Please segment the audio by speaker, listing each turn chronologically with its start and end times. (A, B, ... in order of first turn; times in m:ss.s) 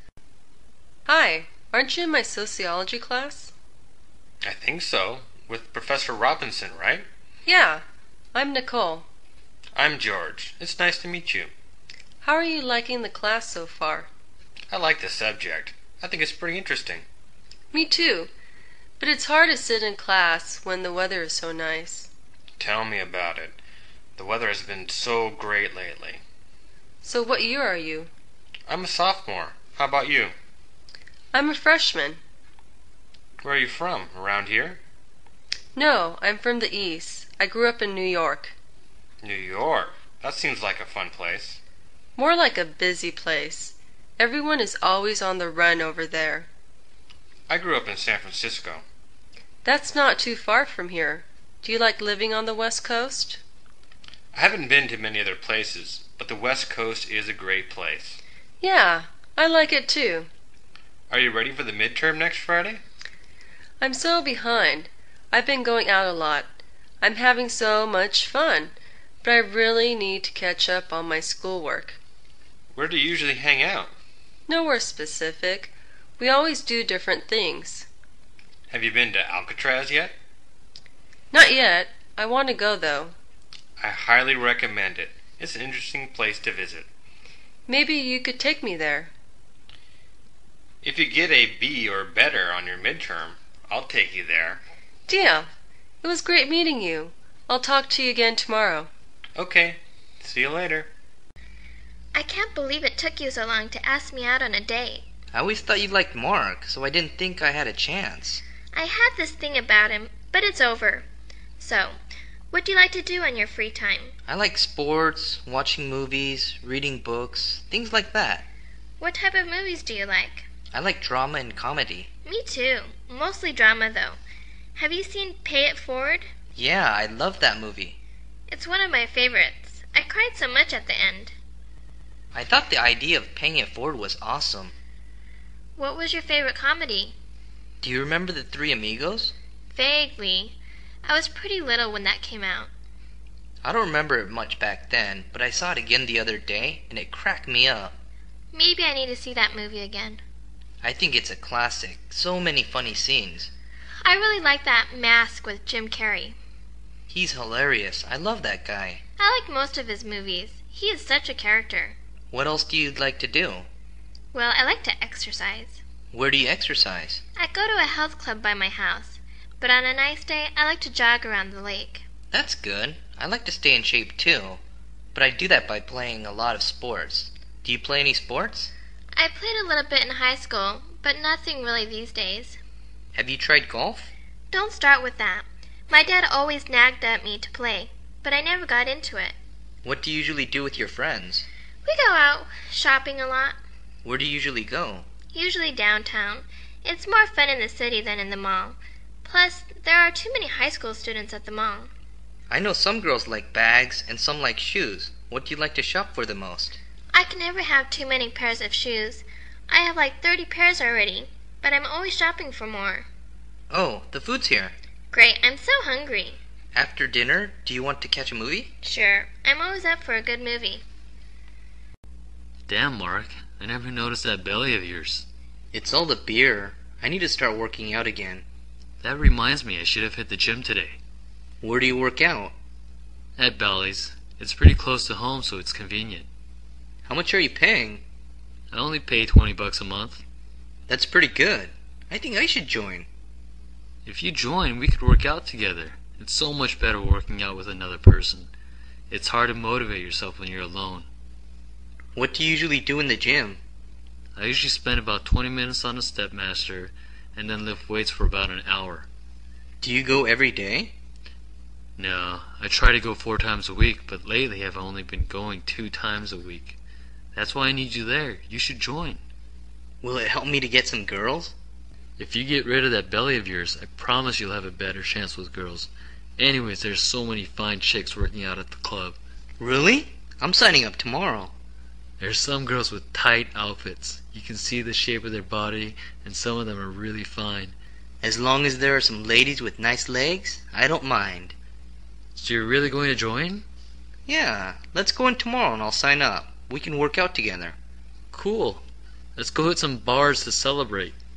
0:01.1-0:03.5 A
0:04.4-0:07.1 B
0:07.4-0:09.1 A
0:09.7-0:11.5 B
0:12.2-0:14.1 A
0:14.7-0:17.0 B
0:17.7-0:18.3 A
0:19.0-0:22.1 A
0:22.6-0:23.6 B
0:24.2-0:26.2 B
0:27.0-0:28.1 A
0:28.7-0:30.4 B
0:31.3-0:32.2 A
0:33.4-0:34.8 B
0:35.7-0:38.6 A
0:39.2-0:41.6 B
0:42.2-0:46.5 A
0:47.5-0:48.8 B
0:49.6-0:53.4 A
0:54.3-0:58.2 B
0:58.6-1:00.3 A
1:01.1-1:02.8 B
1:03.8-1:12.0 A
1:12.7-1:13.9 B
1:14.5-1:17.9 A
1:18.7-1:20.1 B
1:21.3-1:23.2 A
1:23.8-1:26.9 B
1:27.7-1:29.1 A
1:30.8-1:34.6 B
1:35.1-1:35.5 A
1:36.0-1:38.9 A
1:39.4-1:40.9 B
1:42.1-1:45.1 C
1:45.3-1:48.4 D
1:48.7-1:51.1 C
1:51.6-1:52.0 C
1:52.5-1:54.1 C
1:54.3-1:58.5 D
1:59.0-2:00.5 C
2:00.7-2:02.1 D
2:02.2-2:04.2 C
2:04.8-2:06.3 C
2:06.6-2:08.0 D
2:08.5-2:11.4 C
2:12.3-2:14.7 D
2:15.8-2:17.2 C
2:17.8-2:19.4 D
2:19.7-2:22.7 C
2:23.6-2:28.0 D
2:28.5-2:30.2 C
2:30.8-2:33.5 D
2:34.0-2:36.4 C
2:37.1-2:39.0 D
2:39.2-2:42.0 C
2:42.3-2:43.7 D
2:44.3-2:45.8 C
2:46.1-2:47.2 D
2:47.4-2:52.0 C
2:52.3-2:54.6 D
2:55.1-2:58.7 D
2:59.1-3:02.6 C
3:03.1-3:04.1 D
3:04.5-3:09.4 C
3:09.8-3:11.4 D
3:11.8-3:13.6 C
3:14.0-3:15.1 D
3:15.3-3:21.9 C
3:22.5-3:26.8 D
3:27.1-3:33.1 C
3:33.7-3:34.7 D
3:35.1-3:36.4 C
3:36.7-3:38.7 D
3:38.8-3:40.8 C
3:42.7-3:45.3 E
3:45.7-3:48.4 D
3:49.0-3:51.0 E
3:51.6-3:52.5 D
3:53.4-3:56.3 E
3:57.1-3:58.0 D
3:58.7-4:00.2 E
4:00.9-4:03.1 D
4:04.0-4:08.5 E
4:09.1-4:11.1 E
4:12.2-4:13.6 D
4:14.4-4:19.1 E
4:19.8-4:20.9 D
4:22.0-4:26.8 E
4:27.4-4:29.2 E
4:30.0-4:31.6 D
4:32.2-4:39.2 E
4:39.6-4:41.5 D
4:42.2-4:47.7 E
4:48.2-4:51.6 D
4:52.4-4:53.6 E
4:54.3-4:57.8 D
4:58.3-4:58.8 E
4:59.4-5:01.1 E